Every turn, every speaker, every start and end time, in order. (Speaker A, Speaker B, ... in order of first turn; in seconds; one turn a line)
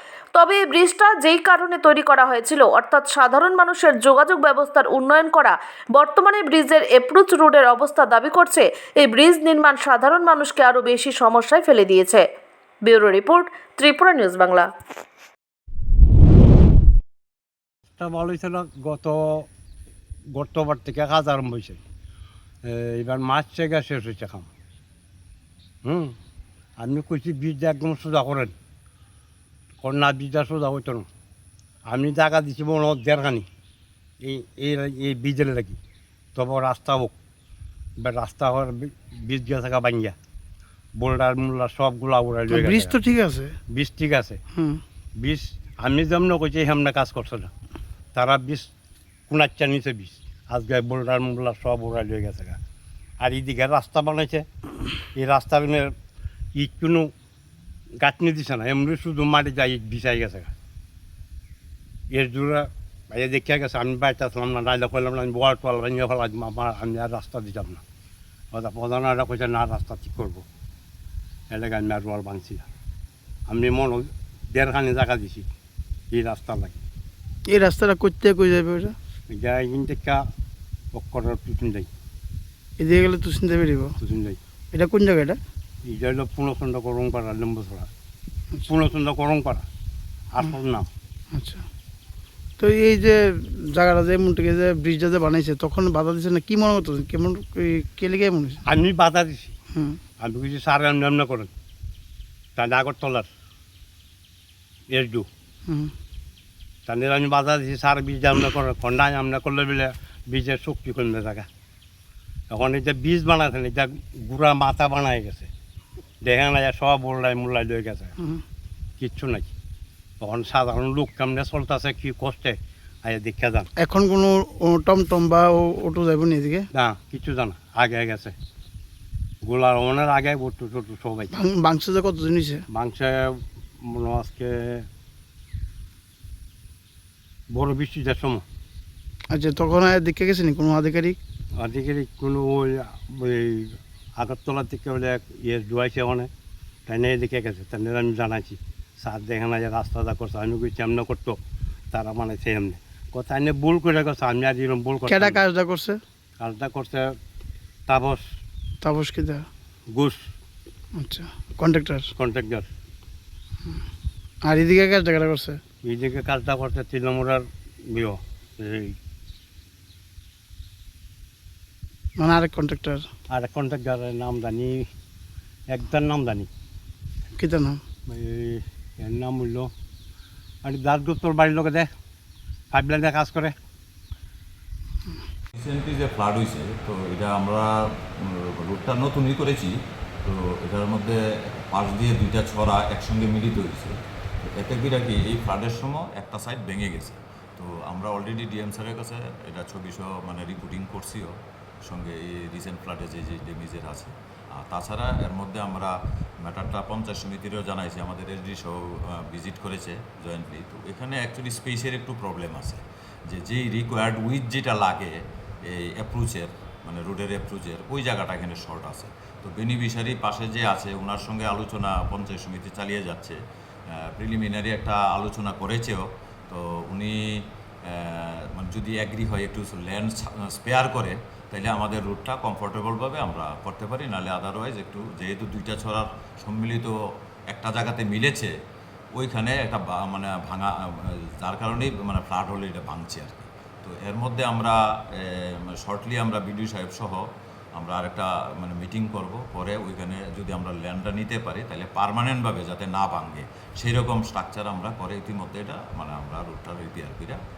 Speaker A: 0.3-12.2
Speaker A: 12.8-14.7
Speaker B: 18.0-19.5
Speaker B: 20.3-21.8
Speaker B: 22.6-24.5
Speaker B: 25.8-26.1
Speaker B: 26.8-28.5
Speaker B: 29.8-31.1
Speaker B: 31.9-33.5
Speaker B: 34.2-35.8
Speaker B: 36.4-37.1
Speaker B: 38.0-40.1
Speaker B: 41.0-43.0
Speaker C: 42.5-43.5
Speaker B: 43.7-44.4
Speaker C: 44.5-44.8
Speaker B: 45.2-47.5
Speaker B: 48.1-48.7
Speaker B: 49.3-52.6
Speaker B: 53.2-54.5
Speaker B: 55.1-55.9
Speaker B: 56.5-57.1
Speaker B: 58.0-60.5
Speaker B: 62.1-67.8
Speaker B: 68.5-70.4
Speaker B: 71.5-72.7
Speaker B: 73.5-75.5
Speaker B: 76.1-76.8
Speaker C: 77.5-78.9
Speaker B: 79.3-80.2
Speaker B: 80.9-81.9
Speaker C: 82.8-84.0
Speaker B: 84.0-84.4
Speaker C: 84.7-85.4
Speaker B: 85.8-87.9
Speaker B: 88.7-89.7
Speaker B: 90.3-90.9
Speaker C: 91.3-91.6
Speaker C: 92.6-98.6
Speaker B: 98.6-99.5
Speaker C: 99.7-100.0
Speaker B: 100.2-101.5
Speaker B: 102.5-103.3
Speaker B: 104.9-105.3
Speaker B: 106.9-111.5
Speaker B: 112.5-115.5
Speaker B: 116.2-118.1
Speaker B: 119.0-119.5
Speaker B: 120.2-123.7
Speaker C: 123.8-126.7
Speaker B: 126.7-128.3
Speaker B: 129.4-131.3
Speaker C: 131.3-132.6
Speaker B: 132.7-134.8
Speaker B: 137.5-138.4
Speaker C: 139.3-141.2
Speaker B: 141.6-146.3
Speaker B: 146.9-151.4
Speaker B: 151.9-155.4
Speaker C: 155.1-156.0
Speaker B: 156.4-157.2
Speaker B: 157.9-158.2
Speaker C: 158.8-159.5
Speaker B: 159.9-160.3
Speaker C: 161.0-162.1
Speaker B: 162.2-162.7
Speaker C: 164.5-165.6
Speaker B: 165.8-168.9
Speaker C: 172.2-173.1
Speaker B: 173.3-174.9
Speaker B: 175.7-176.5
Speaker C: 177.4-177.8
Speaker B: 178.1-179.7
Speaker B: 180.6-181.9
Speaker B: 182.7-183.5
Speaker D: 185.5-201.3
Speaker D: 201.8-223.4
Speaker D: 224.0-227.2
Speaker D: 227.8-236.9
Speaker D: 237.5-238.5
Speaker D: 239.1-247.2
Speaker D: 247.8-257.4